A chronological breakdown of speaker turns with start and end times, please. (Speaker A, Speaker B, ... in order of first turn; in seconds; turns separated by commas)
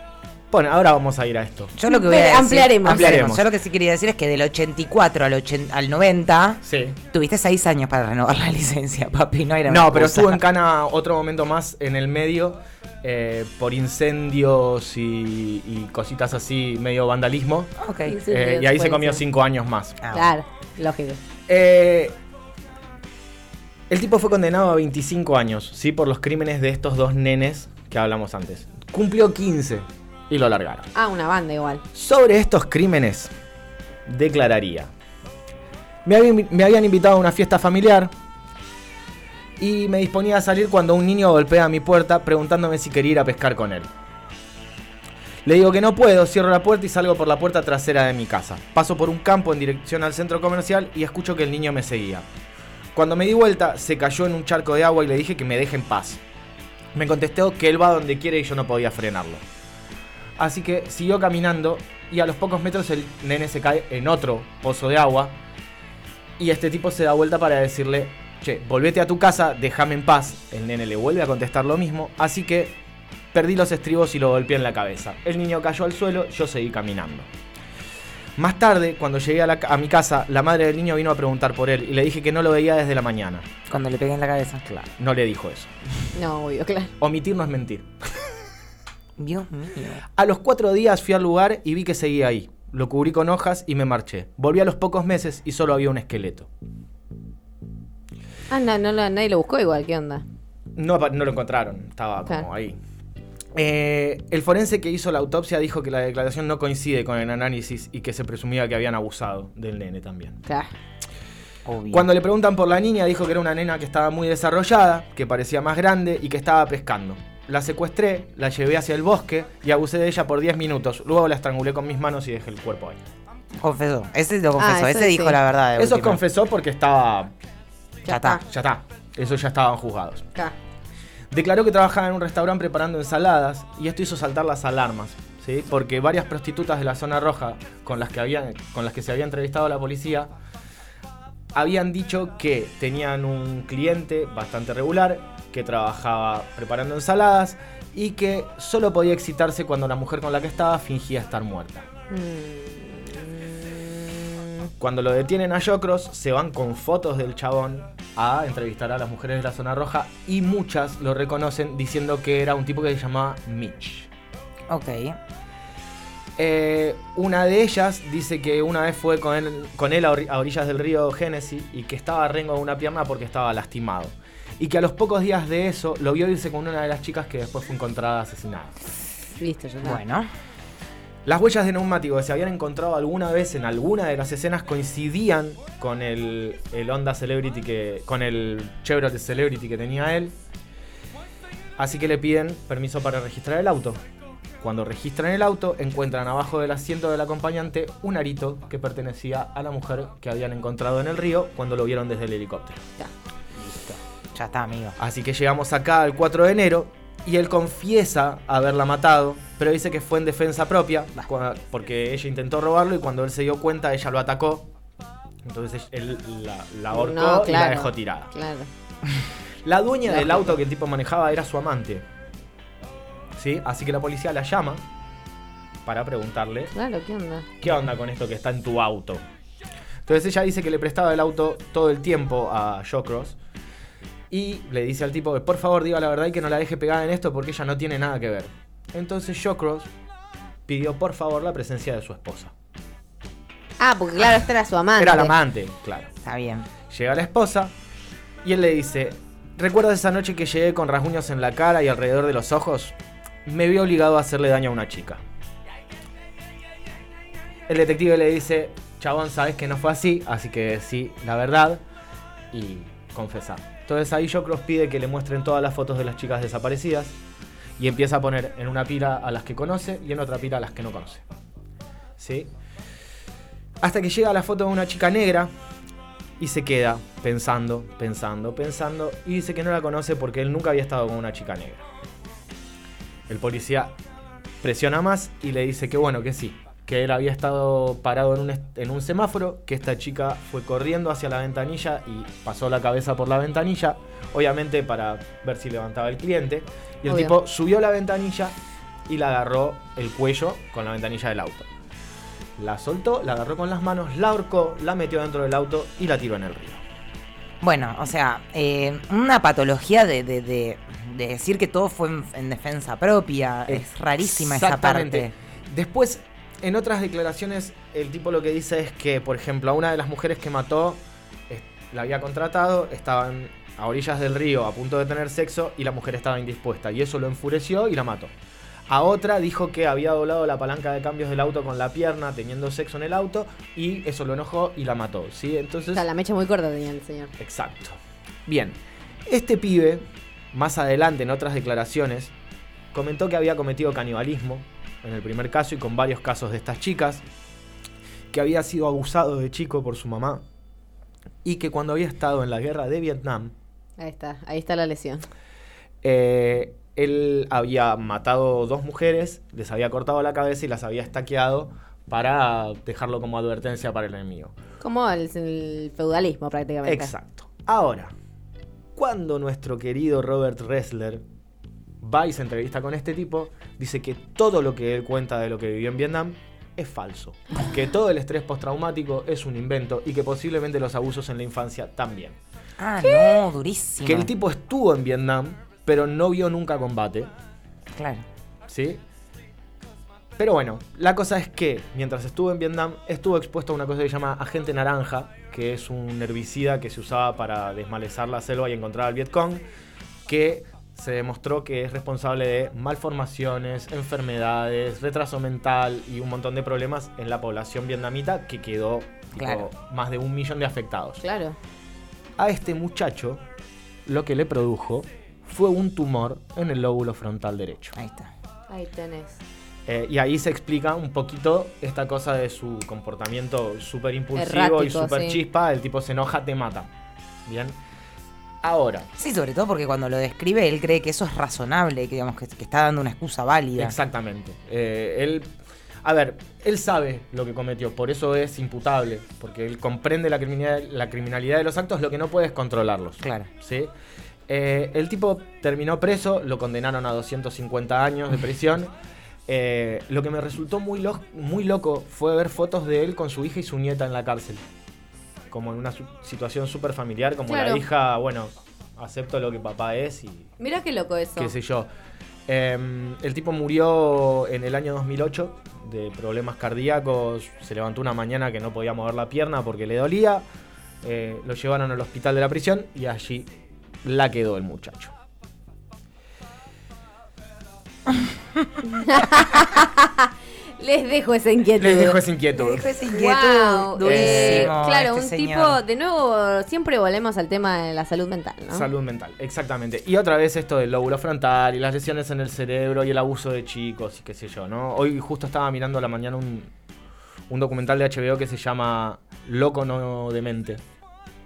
Speaker A: 0.5-1.7, Speaker B: 1.8-10.4, Speaker C: 1.9-3.2, Speaker A: 2.8-3.5, Speaker A: 6.6-7.0, Speaker A: 9.7-17.7, Speaker B: 17.8-18.2, Speaker C: 18.1-19.2, Speaker A: 18.2-20.0, Speaker B: 20.0-20.3, Speaker C: 20.1-21.2, Speaker A: 21.5-22.2, Speaker A: 23.9-30.9, Speaker C: 30.9-31.8, Speaker A: 31.9-33.3, Speaker A: 34.1-34.9, Speaker A: 36.0-38.1, Speaker A: 39.6-43.9, Speaker A: 45.4-52.2, Speaker A: 52.9-56.2, Speaker A: 56.9-59.4, Speaker A: 60.4-65.3, Speaker A: 66.4-72.8, Speaker A: 73.3-77.3, Speaker A: 78.4-83.5, Speaker B: 83.7-84.6, Speaker A: 84.7-85.7, Speaker C: 86.1-86.9, Speaker A: 87.0-87.9, Speaker B: 89.2-90.0, Speaker A: 90.2-96.5, Speaker C: 98.5-100.2, Speaker A: 100.8-102.8, Speaker A: 103.5-110.4, Speaker C: 110.5-110.7, Speaker B: 111.7-112.1, Speaker A: 111.9-123.0, Speaker B: 123.6-126.2, Speaker C: 124.6-125.4, Speaker A: 125.8-127.3, Speaker C: 128.1-128.4, Speaker B: 128.1-128.4, Speaker A: 128.4-130.3, Speaker A: 131.3-140.3, Speaker A: 141.6-151.9, Speaker C: 152.1-154.7, Speaker A: 154.8-164.1, Speaker B: 164.7-165.2, Speaker A: 166.4-178.8, Speaker C: 179.4-180.0, Speaker B: 179.8-180.3, Speaker A: 181.2-190.3, Speaker A: 191.8-194.0, Speaker A: 194.6-202.8, Speaker B: 203.6-204.9, Speaker A: 205.0-214.7, Speaker A: 215.4-218.3, Speaker C: 216.9-218.7, Speaker A: 219.6-222.1, Speaker C: 220.1-220.5, Speaker A: 223.4-224.8, Speaker A: 225.8-226.7, Speaker C: 226.7-227.5, Speaker A: 227.6-229.2, Speaker A: 230.1-233.4, Speaker A: 234.3-239.9, Speaker A: 240.7-242.5, Speaker C: 243.8-245.3, Speaker A: 245.0-246.1, Speaker B: 246.2-246.7, Speaker A: 246.9-247.7, Speaker A: 248.4-255.2, Speaker A: 257.7-261.8, Speaker A: 262.5-267.2, Speaker A: 267.8-271.2, Speaker A: 272.2-272.5, Speaker A: 273.8-275.5, Speaker A: 276.4-281.8, Speaker A: 283.3-283.9, Speaker A: 284.6-298.6, Speaker C: 297.1-297.3, Speaker A: 299.1-301.7, Speaker A: 302.6-306.8, Speaker B: 307.6-315.3, Speaker A: 313.7-328.3, Speaker A: 328.9-336.1, Speaker C: 335.9-337.3, Speaker A: 337.4-342.3, Speaker A: 342.9-347.2, Speaker A: 348.3-350.4, Speaker A: 351.4-353.5, Speaker C: 354.0-355.2, Speaker A: 356.0-364.6, Speaker C: 364.8-367.1, Speaker A: 366.8-368.1, Speaker A: 368.9-371.2, Speaker A: 372.0-382.4, Speaker B: 382.8-384.3, Speaker A: 384.0-387.3, Speaker B: 387.9-388.2, Speaker A: 388.7-389.0, Speaker A: 390.4-399.6, Speaker A: 400.3-411.2, Speaker B: 409.4-409.7, Speaker C: 411.2-411.6, Speaker A: 412.4-413.4, Speaker A: 414.1-417.9, Speaker B: 417.9-418.3, Speaker C: 418.7-419.4, Speaker A: 419.9-426.9, Speaker C: 424.3-425.4, Speaker A: 427.4-427.8, Speaker A: 428.6-429.1, Speaker B: 429.2-433.9, Speaker A: 433.8-435.5, Speaker A: 436.0-443.9, Speaker B: 443.2-443.5, Speaker A: 444.5-448.9, Speaker A: 449.5-454.6, Speaker A: 455.5-460.5, Speaker C: 457.5-457.8, Speaker C: 460.6-461.5, Speaker A: 461.4-461.9, Speaker A: 462.5-470.4, Speaker A: 471.0-473.5, Speaker A: 474.0-475.1, Speaker C: 478.8-482.2, Speaker A: 481.8-482.9, Speaker B: 482.6-485.8, Speaker C: 483.1-488.9, Speaker A: 484.0-484.7, Speaker A: 488.7-496.7, Speaker A: 497.5-500.8